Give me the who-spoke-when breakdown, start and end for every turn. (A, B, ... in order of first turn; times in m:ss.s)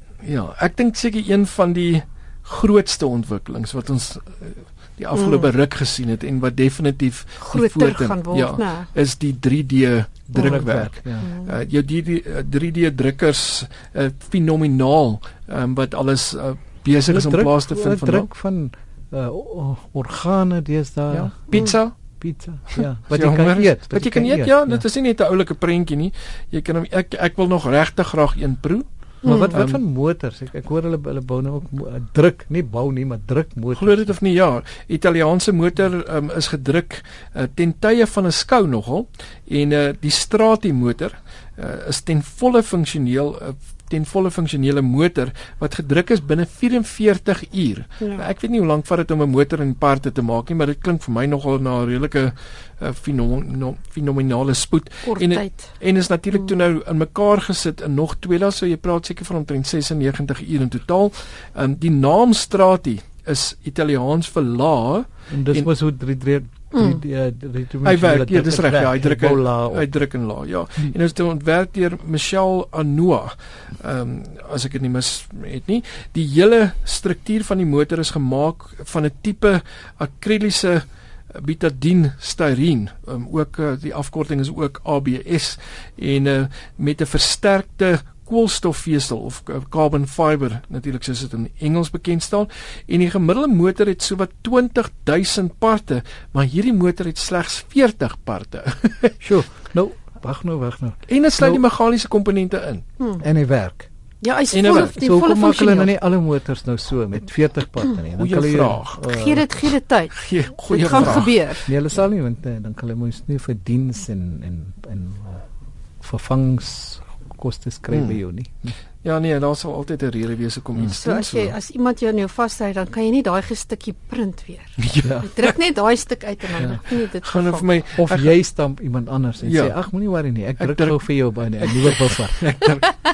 0:00.2-0:18.3 A
0:05.1-0:05.5 B
0:07.4-0:08.9 B
0:10.3-0:11.3 C
0:11.2-0:11.6 B
0:17.1-0:21.6 C
0:21.1-0:21.9 A
0:22.2-0:24.8 C
0:22.7-0:29.8 A
0:29.2-0:29.5 B
0:29.3-0:34.1 C
0:33.7-1:05.7 A
0:48.0-0:48.2 B
0:55.0-0:55.7 B
1:05.3-1:09.9 C
1:06.7-1:07.0 B
1:07.8-1:39.2 A
1:39.2-1:41.6 C
1:41.1-1:42.8 A
1:43.0-1:43.2 B
1:43.2-1:43.9 C
1:44.2-1:45.9 B
1:44.5-1:44.9 A
1:44.7-1:49.4 C
1:48.2-1:49.0 A
1:49.1-1:51.7 B
1:50.1-1:51.4 A
1:51.6-1:55.4 C
1:56.0-1:58.7 C
1:57.9-1:58.2 A
1:59.0-2:01.5 A
2:00.9-2:07.6 B
2:04.8-2:05.5 A
2:05.0-2:05.3 C
2:06.6-2:06.8 C
2:07.2-2:08.3 A
2:08.0-2:12.5 C
2:09.4-2:09.7 A
2:10.6-2:11.0 A
2:11.6-2:12.9 A